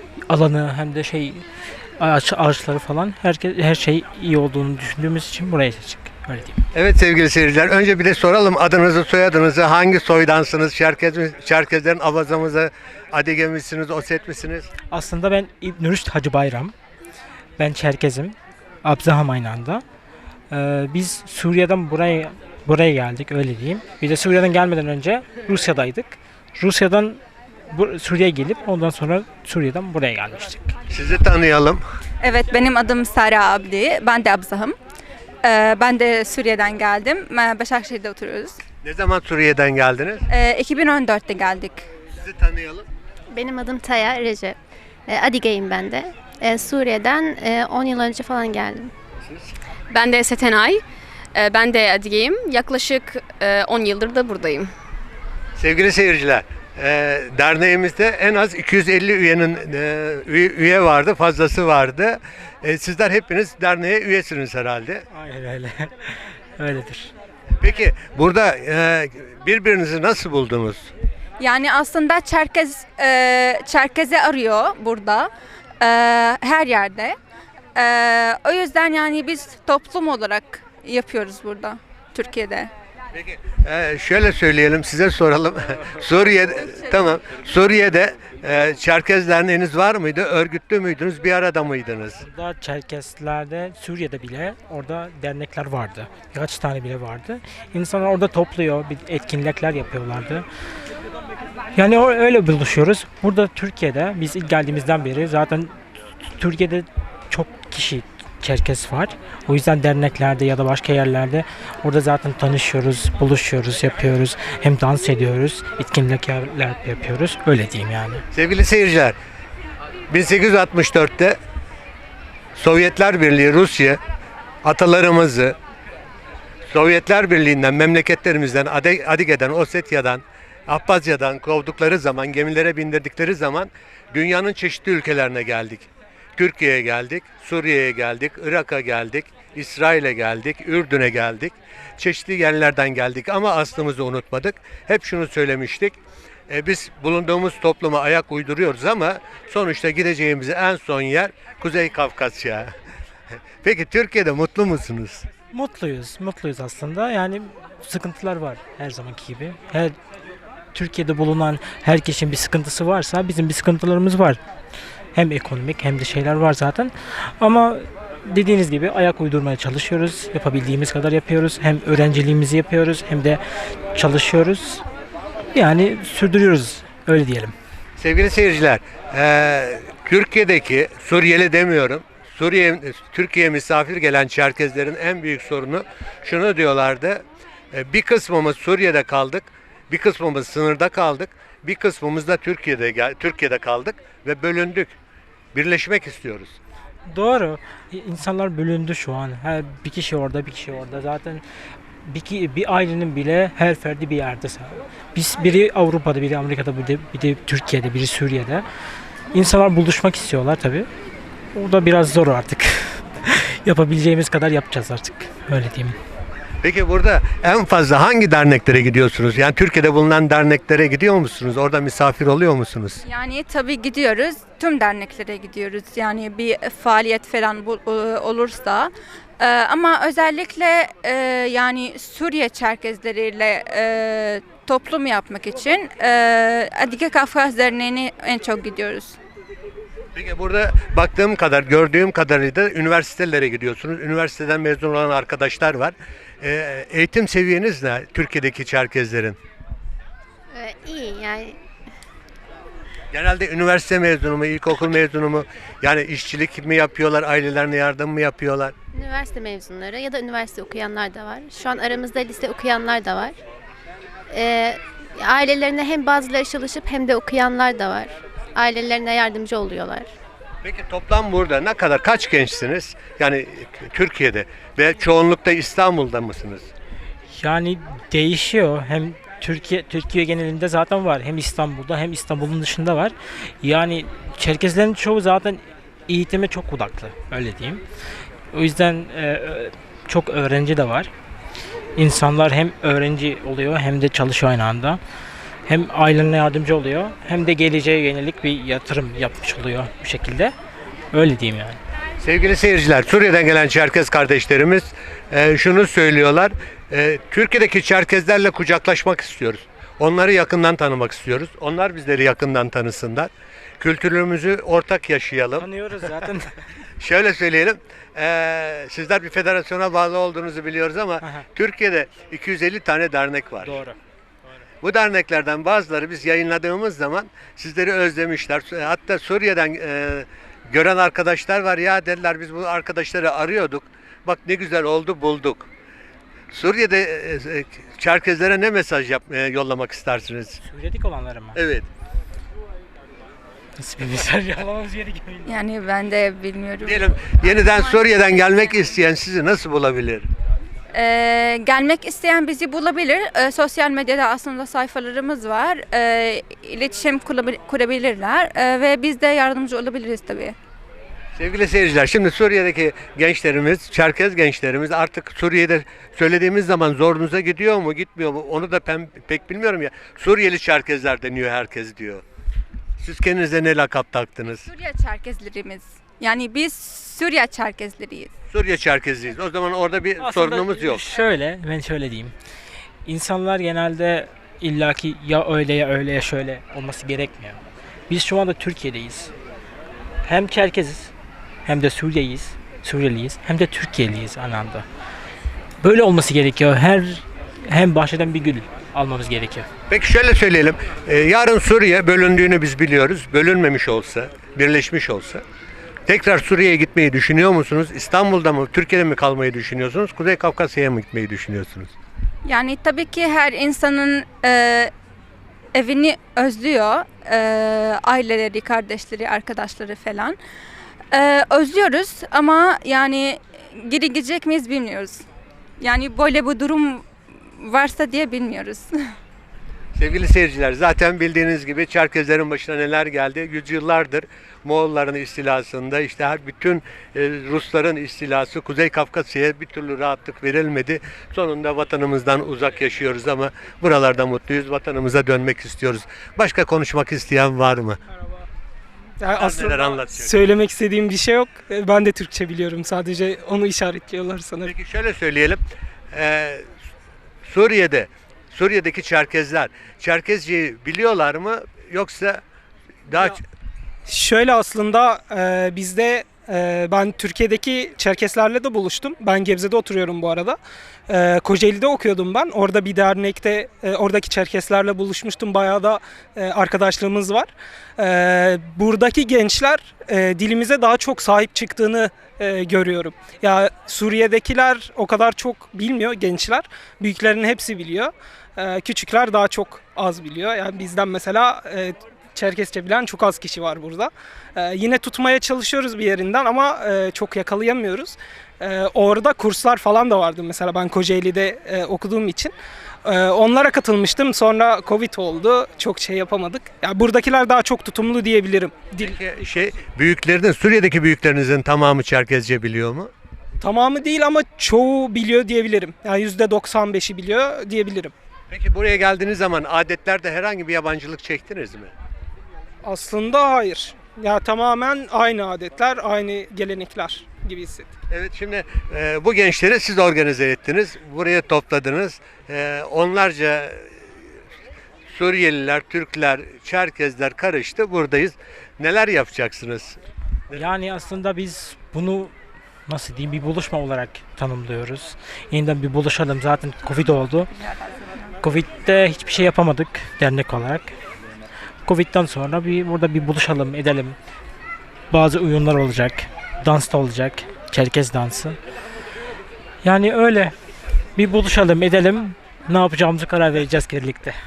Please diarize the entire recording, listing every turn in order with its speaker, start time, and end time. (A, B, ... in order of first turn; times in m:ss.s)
0:00.3-0:01.4 A
0:02.0-0:06.6 A
0:06.7-0:14.7 B
0:14.9-0:16.7 A
0:17.6-0:19.8 A
0:20.5-0:30.7 A
0:30.9-0:31.8 B
0:32.2-0:34.8 C
0:35.4-0:38.6 C
0:38.8-0:40.3 B
0:40.3-0:41.9 C
0:42.2-0:42.9 B
0:43.3-0:48.9 D
0:49.9-0:50.8 E
0:51.4-0:54.7 E
0:55.6-1:05.0 B
1:05.1-1:07.1 A
1:07.6-1:10.9 B
1:11.4-1:15.3 C
1:15.8-1:17.2 C
1:17.8-1:22.7 C
1:23.1-1:32.2 B
1:32.2-1:40.5 A
1:41.8-1:58.2 A
1:58.3-1:59.2 B
2:00.1-2:01.4 B
2:02.6-2:04.0 B
2:04.6-2:05.6 B
2:06.7-2:26.0 B
2:26.5-2:32.7 B
2:33.6-2:35.3 B
2:35.5-2:40.0 A
2:40.7-2:44.4 A
2:45.1-2:53.4 A
2:54.0-2:54.8 A
2:55.5-2:57.5 A
2:58.0-3:14.9 B
3:15.5-3:16.6 B
3:17.1-3:21.4 A
3:22.0-3:28.6 A
3:29.3-3:30.9 A
3:31.5-3:36.0 A
3:36.6-3:43.0 B
3:43.0-3:59.2 C
4:00.2-4:09.4 B
4:10.5-4:11.6 D
4:13.1-4:18.7 B
4:18.9-4:23.4 D
4:24.3-4:30.1 D
4:30.6-4:36.7 B
4:37.3-4:47.8 A
4:48.5-4:51.1 A
4:52.0-4:55.0 A
4:55.7-5:00.5 A
5:01.1-5:01.8 A
5:02.2-5:15.7 B
5:15.6-5:16.5 A
5:17.0-5:23.8 B
5:23.6-5:24.0 A
5:24.8-5:35.7 B
5:36.5-5:40.6 B
5:40.6-5:41.6 A
5:41.6-5:41.9 B
5:43.8-5:45.5 A
5:45.5-5:48.8 C
5:46.8-5:50.3 B
5:50.9-6:00.6 C
6:01.4-6:12.2 B
6:13.0-6:14.7 B
6:14.7-6:18.3 C
6:18.5-6:21.0 B
6:20.2-6:22.3 A
6:23.1-6:29.3 A
6:30.2-6:31.1 A
6:31.6-6:34.8 A
6:35.8-6:39.7 A
6:39.9-6:45.4 B
6:46.1-6:51.9 B
6:52.4-6:54.9 C
6:55.7-7:00.4 C
7:01.1-7:05.2 C
7:05.8-7:08.9 C
7:10.0-7:28.0 B
7:29.2-7:34.7 F
7:29.4-7:30.4 B
7:34.6-7:35.6 B
7:36.1-7:36.7 B
7:37.4-7:42.4 B
7:43.1-7:43.4 B
7:44.1-8:22.5 F
8:23.0-8:29.2 F
8:29.0-8:33.1 B
8:33.6-8:38.1 F
8:38.5-8:41.9 B
8:42.8-8:47.9 F
8:48.1-8:54.0 B
8:55.1-9:00.0 B
9:00.5-9:02.3 A
9:02.9-9:07.5 A
9:08.0-9:08.3 C
9:08.4-9:11.0 A
9:11.8-9:14.2 A
9:15.1-9:18.6 A
9:19.8-9:20.6 A
9:21.2-9:24.3 A